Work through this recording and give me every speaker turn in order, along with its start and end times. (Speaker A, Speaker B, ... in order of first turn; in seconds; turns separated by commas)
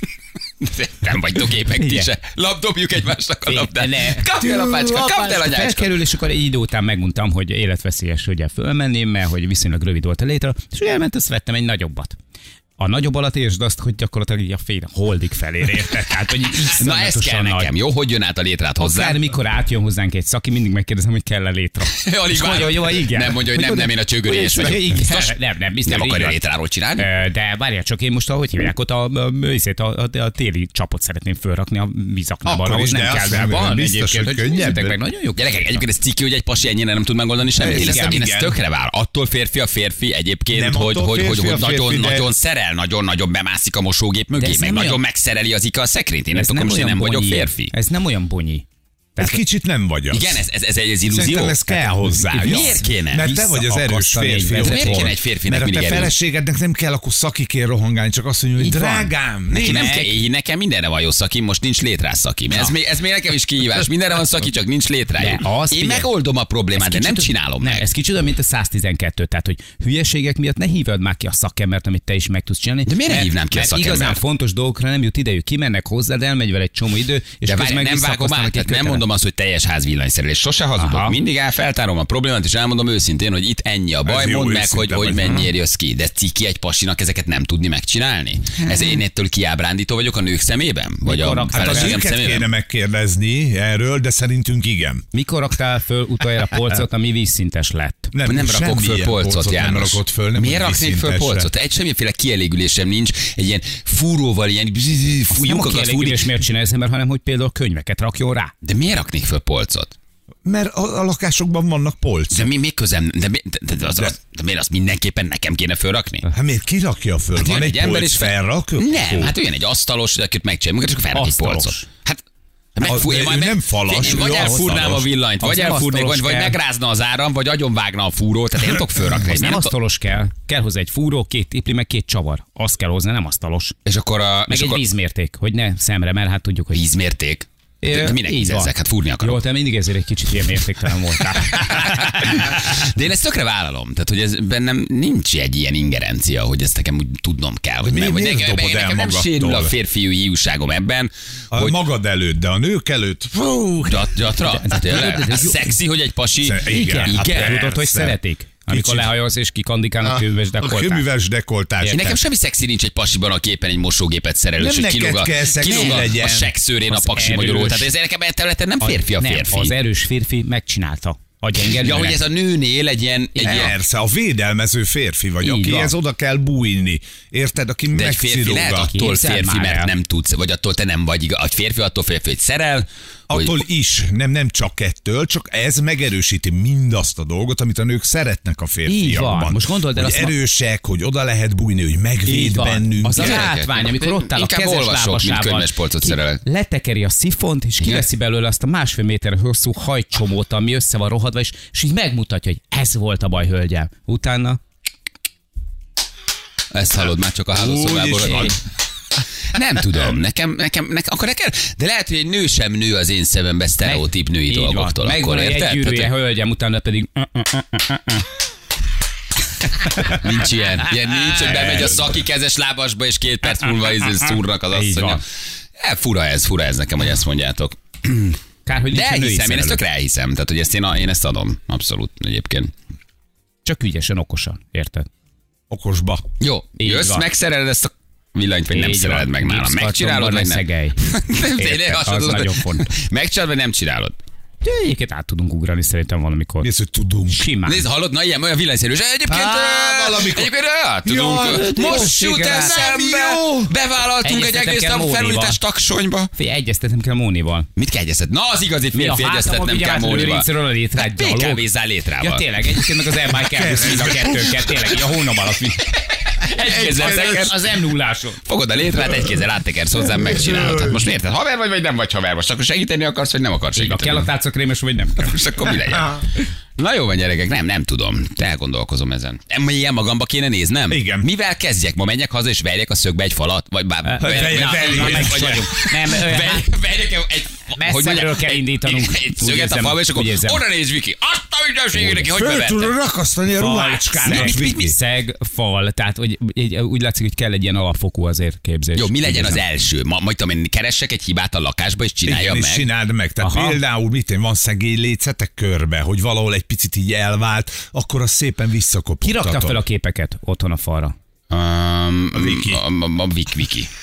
Speaker A: 0.6-6.0, Speaker B: 1.7-2.1, Speaker B: 3.5-12.1, Speaker B: 12.8-17.7, Speaker A: 16.6-19.2, Speaker B: 18.8-26.4, Speaker A: 22.0-25.3, Speaker A: 25.9-27.1, Speaker B: 27.0-35.8, Speaker C: 32.4-35.0, Speaker A: 35.4-47.7, Speaker C: 37.6-38.6, Speaker B: 37.6-38.2, Speaker C: 40.5-42.3, Speaker B: 44.3-45.0, Speaker B: 46.3-48.6, Speaker B: 49.1-49.4, Speaker C: 49.2-50.4, Speaker A: 50.1-51.7, Speaker C: 51.1-59.9, Speaker B: 51.8-55.1, Speaker A: 52.4-53.3, Speaker A: 54.6-56.1, Speaker B: 58.6-59.1, Speaker A: 59.5-67.9, Speaker B: 59.6-60.1, Speaker B: 65.2-66.1, Speaker B: 66.7-79.0, Speaker A: 72.8-74.2, Speaker A: 77.4-92.5, Speaker B: 80.8-81.2, Speaker C: 84.0-85.5, Speaker B: 91.0-92.0, Speaker C: 91.5-95.0, Speaker B: 95.1-98.1, Speaker C: 98.1-101.5, Speaker A: 98.2-106.2, Speaker B: 105.3-108.5, Speaker A: 108.6-109.9, Speaker C: 110.4-112.4, Speaker A: 112.3-116.3, Speaker C: 116.3-119.3, Speaker A: 117.3-122.2, Speaker B: 121.1-121.8, Speaker A: 122.7-129.7, Speaker C: 122.8-125.0, Speaker B: 124.0-126.6, Speaker B: 129.3-133.7, Speaker A: 133.8-134.8, Speaker B: 134.5-136.8, Speaker A: 136.7-139.4, Speaker B: 137.8-142.2, Speaker A: 141.3-151.8, Speaker C: 147.8-149.7, Speaker C: 151.5-154.1, Speaker A: 153.8-157.6, Speaker B: 154.4-155.7, Speaker C: 156.4-158.2, Speaker B: 156.7-161.1, Speaker C: 158.7-159.1, Speaker C: 160.0-162.0, Speaker B: 161.8-162.2, Speaker A: 161.9-169.7, Speaker C: 164.6-166.5, Speaker B: 166.9-167.9, Speaker B: 168.8-172.2, Speaker A: 171.6-173.7, Speaker C: 173.4-178.9, Speaker B: 175.4-175.9, Speaker A: 177.9-183.6, Speaker B: 178.9-179.9, Speaker C: 183.3-193.5, Speaker B: 188.8-190.3, Speaker B: 192.2-204.6, Speaker A: 193.0-196.4, Speaker A: 197.8-198.1, Speaker A: 206.7-208.6, Speaker C: 207.5-208.6, Speaker A: 209.5-216.1, Speaker B: 213.8-218.3, Speaker B: 219.6-220.3, Speaker A: 220.2-225.2, Speaker B: 221.2-222.1, Speaker B: 224.7-225.2, Speaker A: 225.8-228.4, Speaker B: 228.7-229.8, Speaker A: 228.9-232.7, Speaker B: 233.6-235.1, Speaker C: 235.7-236.2, Speaker A: 236.4-244.2, Speaker B: 236.8-237.3, Speaker B: 238.7-241.0, Speaker B: 241.6-242.9, Speaker B: 244.6-246.7, Speaker C: 246.6-247.5, Speaker B: 247.3-247.8, Speaker A: 247.7-256.3, Speaker C: 249.3-250.5, Speaker C: 251.0-253.7, Speaker B: 251.5-252.9, Speaker B: 254.2-255.6, Speaker B: 256.3-257.7, Speaker A: 257.8-262.8, Speaker B: 258.9-261.6, Speaker B: 262.2-265.8, Speaker C: 263.4-264.9, Speaker A: 266.2-267.6, Speaker B: 266.6-268.4, Speaker C: 266.7-267.5, Speaker A: 268.4-274.3, Speaker C: 270.4-270.9, Speaker B: 273.8-275.4, Speaker A: 275.2-292.9, Speaker C: 280.9-281.3, Speaker B: 284.0-286.7, Speaker C: 284.2-285.7, Speaker B: 287.7-290.6, Speaker B: 291.9-292.2, Speaker C: 292.3-294.9, Speaker B: 293.6-299.6, Speaker A: 294.2-294.9, Speaker A: 298.9-302.9, Speaker C: 302.2-309.8, Speaker B: 303.4-303.8, Speaker B: 309.2-311.1, Speaker A: 311.5-313.9, Speaker C: 312.3-312.8